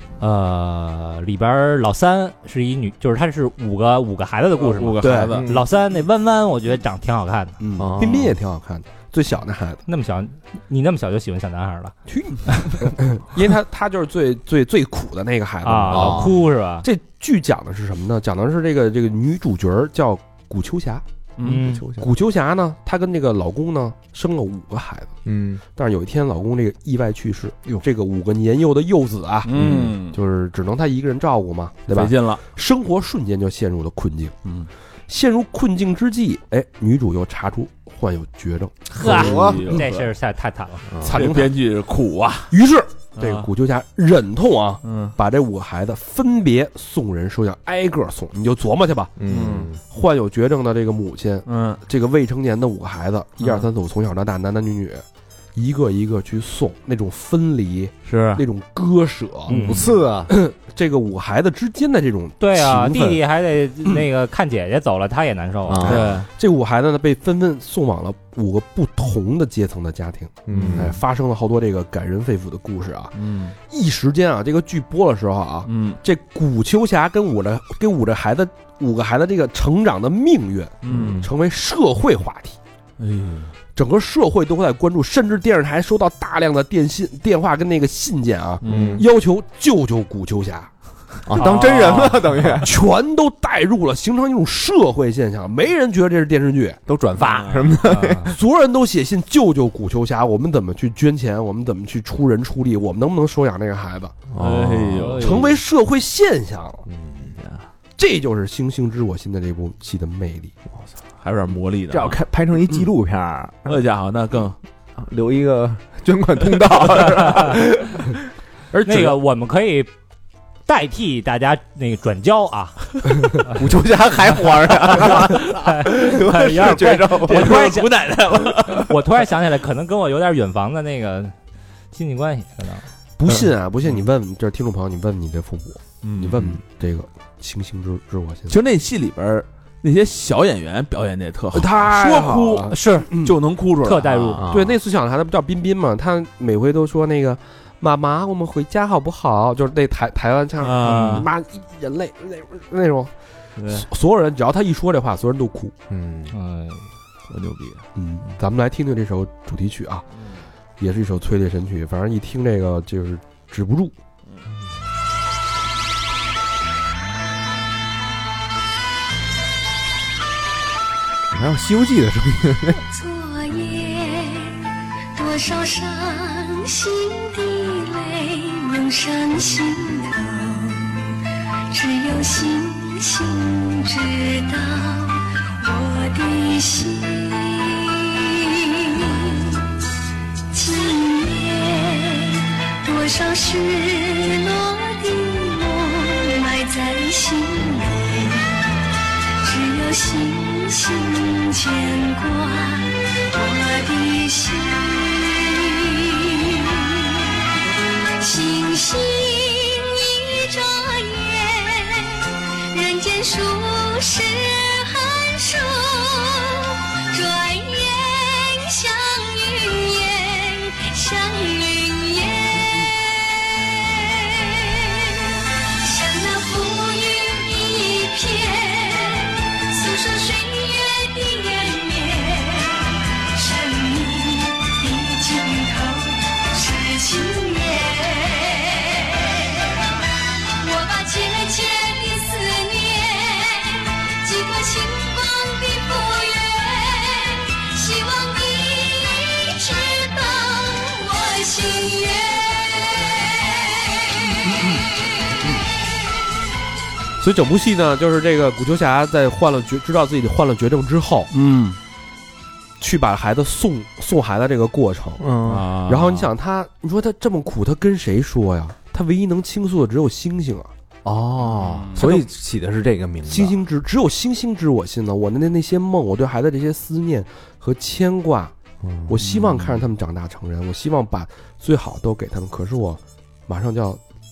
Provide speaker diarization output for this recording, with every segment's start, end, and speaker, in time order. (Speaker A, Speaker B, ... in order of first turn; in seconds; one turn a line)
Speaker A: 0.2-7.5
Speaker B: 4.6-5.5
Speaker C: 5.0-5.4
Speaker D: 5.2-5.6
Speaker C: 7.6-9.8
Speaker D: 7.8-8.3
Speaker A: 9.9-11.9
Speaker C: 12.1-21.0
Speaker A: 12.5-12.9
Speaker A: 15.6-16.9
Speaker D: 15.9-16.3
Speaker B: 21.4-21.7
Speaker A: 21.4-21.9
Speaker C: 21.6-25.1
Speaker D: 25.2-25.6
Speaker C: 25.7-34.4
Speaker B: 29.4-30.2
Speaker D: 29.6-29.9
Speaker B: 31.9-32.4
Speaker C: 35.1-38.8
Speaker A: 38.9-40.8
Speaker B: 39.0-40.1
Speaker D: 39.0-39.7
Speaker D: 40.9-41.2
Speaker B: 41.0-42.5
Speaker C: 41.0-41.6
Speaker C: 42.5-55.0
Speaker B: 43.1-43.5
Speaker B: 44.8-45.1
Speaker D: 49.2-49.7
Speaker B: 49.2-49.8
Speaker B: 51.5-51.8
Speaker B: 53.4-53.7
Speaker C: 55.5-59.6
Speaker B: 58.0-58.4
Speaker A: 59.5-59.9
Speaker D: 59.5-60.3
Speaker C: 60.3-63.2
Speaker A: 62.4-65.9
Speaker D: 65.7-66.1
Speaker B: 65.8-66.3
Speaker C: 65.8-82.6
Speaker D: 70.5-71.0
Speaker B: 70.5-70.9
Speaker B: 73.1-73.5
Speaker B: 75.7-76.0
Speaker B: 80.8-81.3
Speaker D: 80.9-81.3
Speaker B: 83.0-83.5
Speaker C: 83.7-90.7
Speaker B: 88.6-89.0
Speaker D: 88.6-89.0
Speaker D: 91.2-92.7
Speaker A: 91.3-92.2
Speaker C: 92.6-96.8
Speaker D: 96.9-98.3
Speaker B: 97.2-97.8
Speaker A: 97.8-98.3
Speaker C: 98.3-104.2
Speaker D: 104.3-105.2
Speaker B: 104.3-105.6
Speaker A: 105.0-105.5
Speaker C: 105.2-106.8
Speaker D: 106.9-107.3
Speaker B: 107.3-107.7
Speaker C: 108.0-110.5
Speaker B: 111.2-112.2
Speaker D: 111.9-113.8
Speaker B: 113.7-114.6
Speaker D: 115.0-118.1
Speaker C: 118.7-119.1
Speaker A: 118.8-119.9
Speaker A: 120.7-123.5
Speaker D: 123.4-127.6
Speaker A: 124.7-128.0
Speaker B: 127.2-129.0
Speaker A: 128.7-131.3
Speaker A: 131.9-132.8
Speaker C: 133.2-138.6
Speaker B: 136.0-136.6
Speaker B: 138.5-144.4
Speaker C: 141.5-143.4
Speaker A: 142.7-143.1
Speaker A: 143.8-144.4
Speaker D: 144.3-144.8
Speaker C: 144.4-153.1
Speaker B: 150.6-151.2
Speaker A: 150.8-151.2
Speaker B: 153.6-153.8
Speaker C: 153.7-155.7
Speaker D: 155.9-156.3
Speaker A: 156.3-156.8
Speaker B: 157.3-157.8
Speaker C: 157.9-160.0
Speaker C: 160.8-163.9
Speaker D: 171.3-172.8
Speaker E: 172.8-174.6
Speaker E: 175.1-181.2
Speaker E: 181.7-189.6
Speaker E: 190.5-198.6
Speaker E: 199.4-207.3
Speaker E: 208.2-254.2
Speaker C: 254.4-254.8
Speaker C: 257.2-261.3
Speaker B: 261.3-261.8
Speaker C: 262.8-265.2
Speaker D: 265.2-265.7
Speaker B: 265.4-266.3
Speaker C: 265.8-270.7
Speaker D: 271.0-273.6
Speaker B: 271.4-272.2
Speaker C: 272.0-272.2
Speaker C: 273.3-278.5
Speaker D: 278.8-279.2
Speaker C: 279.1-284.0
Speaker B: 279.2-279.8